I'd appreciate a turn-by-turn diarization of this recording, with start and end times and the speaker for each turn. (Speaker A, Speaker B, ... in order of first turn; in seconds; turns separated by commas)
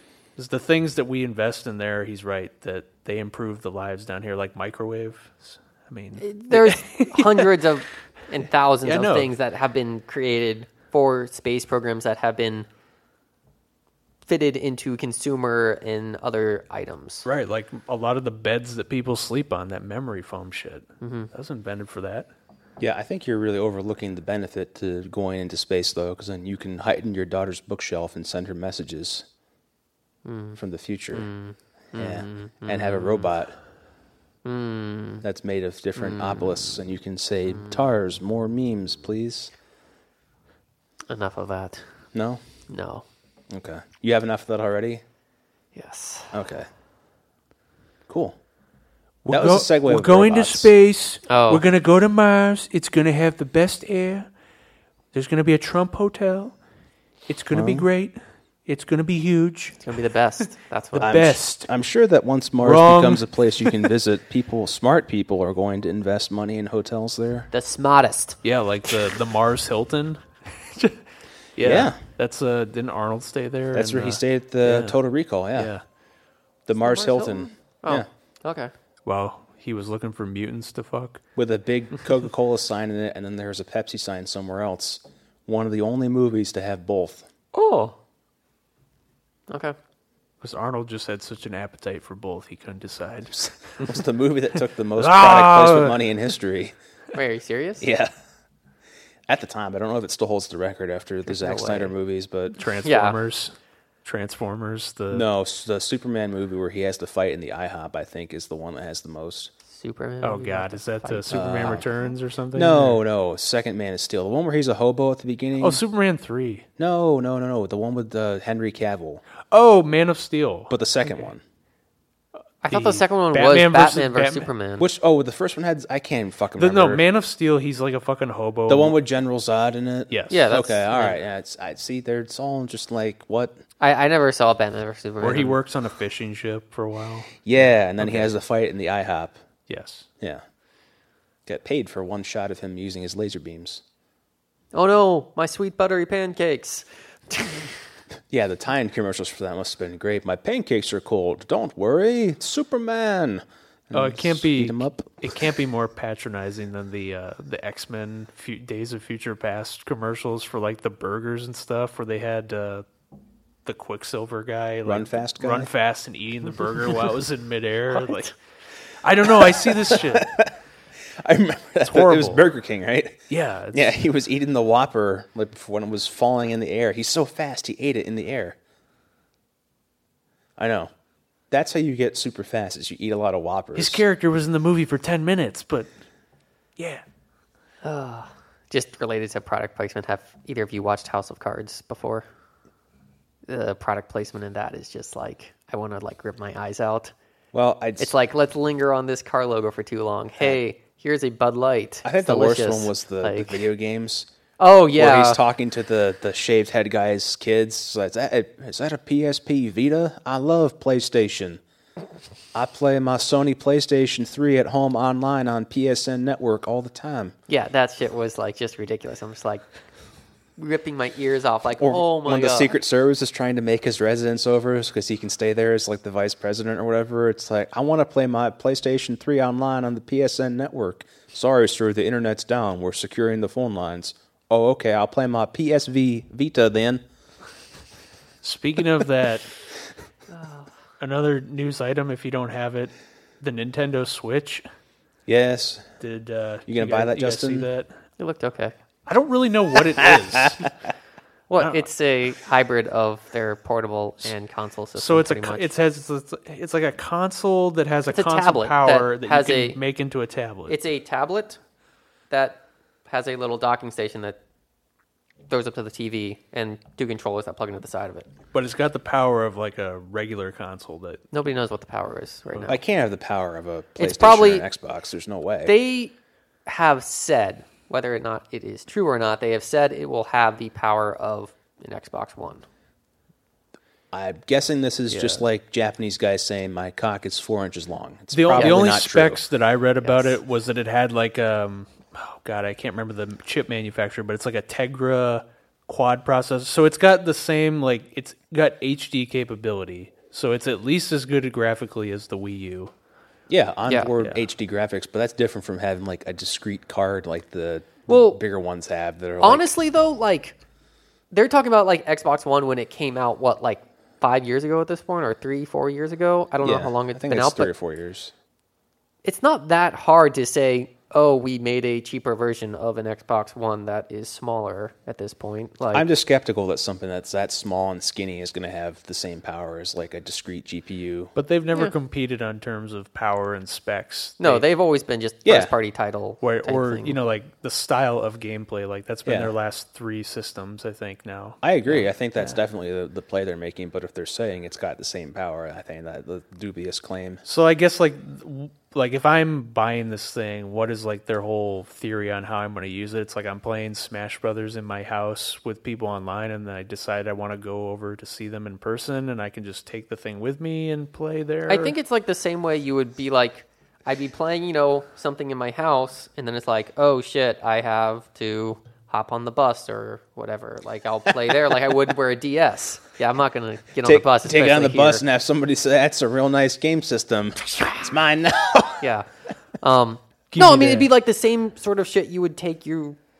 Speaker A: 0.3-7.6, Speaker B: 6.2-12.7, Speaker A: 8.8-9.3, Speaker B: 14.2-17.3, Speaker A: 17.2-22.3, Speaker B: 21.0-21.3, Speaker C: 22.8-29.2, Speaker B: 30.2-30.6, Speaker C: 30.6-31.3, Speaker B: 31.1-33.3, Speaker C: 31.9-33.5, Speaker B: 34.4-35.2, Speaker C: 35.2-39.5, Speaker B: 36.0-36.8, Speaker B: 41.1-41.8, Speaker C: 42.1-42.4, Speaker B: 42.7-43.0, Speaker C: 43.5-45.0, Speaker B: 45.7-46.4, Speaker C: 46.3-46.7, Speaker C: 48.1-48.4, Speaker A: 49.2-54.3, Speaker C: 49.3-50.7, Speaker B: 51.3-51.6, Speaker A: 55.1-56.5, Speaker A: 57.3-59.8, Speaker C: 57.5-57.9, Speaker B: 59.8-61.2, Speaker A: 60.9-61.7, Speaker C: 61.0-67.5, Speaker A: 62.6-63.9, Speaker B: 67.5-68.4, Speaker A: 68.4-71.0, Speaker A: 71.5-75.0, Speaker C: 71.6-72.0, Speaker C: 73.7-75.7, Speaker A: 75.5-75.8, Speaker C: 76.7-78.0, Speaker B: 76.8-78.7, Speaker A: 79.0-81.2, Speaker C: 81.3-87.3, Speaker B: 87.5-88.0, Speaker B: 89.5-89.7, Speaker A: 90.4-93.8, Speaker C: 93.3-96.8, Speaker A: 95.0-96.0, Speaker B: 97.1-97.9, Speaker C: 97.8-98.1, Speaker C: 99.3-102.6, Speaker B: 101.2-101.9, Speaker A: 102.5-103.5, Speaker B: 102.8-103.2, Speaker A: 104.0-105.2, Speaker C: 105.1-109.5, Speaker B: 109.7-112.1, Speaker A: 110.2-113.0, Speaker C: 111.3-111.9, Speaker C: 112.5-115.8, Speaker A: 115.6-116.7, Speaker C: 116.8-119.2, Speaker A: 119.5-120.7, Speaker C: 120.7-121.4, Speaker B: 122.6-124.8, Speaker A: 122.7-124.5, Speaker C: 124.8-127.0, Speaker A: 126.6-128.9, Speaker C: 128.7-133.6, Speaker A: 130.1-130.5, Speaker B: 130.3-131.2, Speaker B: 133.8-135.6, Speaker A: 135.2-138.3, Speaker C: 137.4-139.3, Speaker A: 139.7-140.1, Speaker C: 141.4-143.8, Speaker B: 144.7-147.7, Speaker C: 148.3-155.4, Speaker A: 153.9-162.8, Speaker A: 163.7-168.3, Speaker C: 164.8-165.7, Speaker B: 167.9-168.3, Speaker A: 169.0-170.3, Speaker C: 169.4-170.5, Speaker C: 171.2-173.2, Speaker A: 171.8-172.4, Speaker A: 173.3-173.9, Speaker C: 173.7-178.6, Speaker C: 180.6-180.9, Speaker C: 181.5-184.0, Speaker A: 183.8-185.9, Speaker A: 186.8-187.0, Speaker B: 187.8-192.3, Speaker B: 193.5-197.1, Speaker C: 197.5-198.1, Speaker B: 198.0-203.6, Speaker C: 202.0-204.3, Speaker B: 204.6-205.4, Speaker C: 204.9-211.6, Speaker C: 212.5-217.3, Speaker B: 217.5-219.6, Speaker B: 220.6-222.8, Speaker C: 221.8-237.0, Speaker A: 238.4-239.5, Speaker B: 240.3-240.7, Speaker A: 241.0-244.6, Speaker C: 245.3-245.9, Speaker A: 246.0-247.9, Speaker C: 246.7-247.7, Speaker B: 248.2-248.7, Speaker A: 249.1-250.7, Speaker C: 250.0-250.7, Speaker B: 251.5-255.7, Speaker A: 251.6-251.8, Speaker A: 255.0-260.8, Speaker B: 258.1-259.8, Speaker B: 260.7-261.6, Speaker B: 262.3-264.4, Speaker B: 265.5-268.3, Speaker A: 268.5-271.2, Speaker B: 271.3-272.8, Speaker C: 272.7-275.7, Speaker B: 274.0-274.7, Speaker B: 275.6-276.1, Speaker B: 276.6-282.6, Speaker C: 284.1-289.4, Speaker A: 285.1-285.4, Speaker A: 288.3-302.9, Speaker B: 288.5-288.8, Speaker B: 290.0-290.4, Speaker C: 303.5-309.7, Speaker B: 308.1-308.4, Speaker B: 309.4-310.6, Speaker B: 311.3-317.7, Speaker C: 316.6-318.3, Speaker B: 319.2-326.1, Speaker C: 325.9-331.3, Speaker A: 331.4-334.6, Speaker B: 334.4-337.2, Speaker C: 335.4-335.7, Speaker A: 336.4-341.6, Speaker C: 339.2-339.5, Speaker C: 341.6-347.4, Speaker B: 341.9-342.5, Speaker A: 347.4-361.9, Speaker B: 361.7-375.2, Speaker C: 374.0-379.1, Speaker B: 379.0-379.3, Speaker B: 379.8-383.2, Speaker A: 380.5-381.1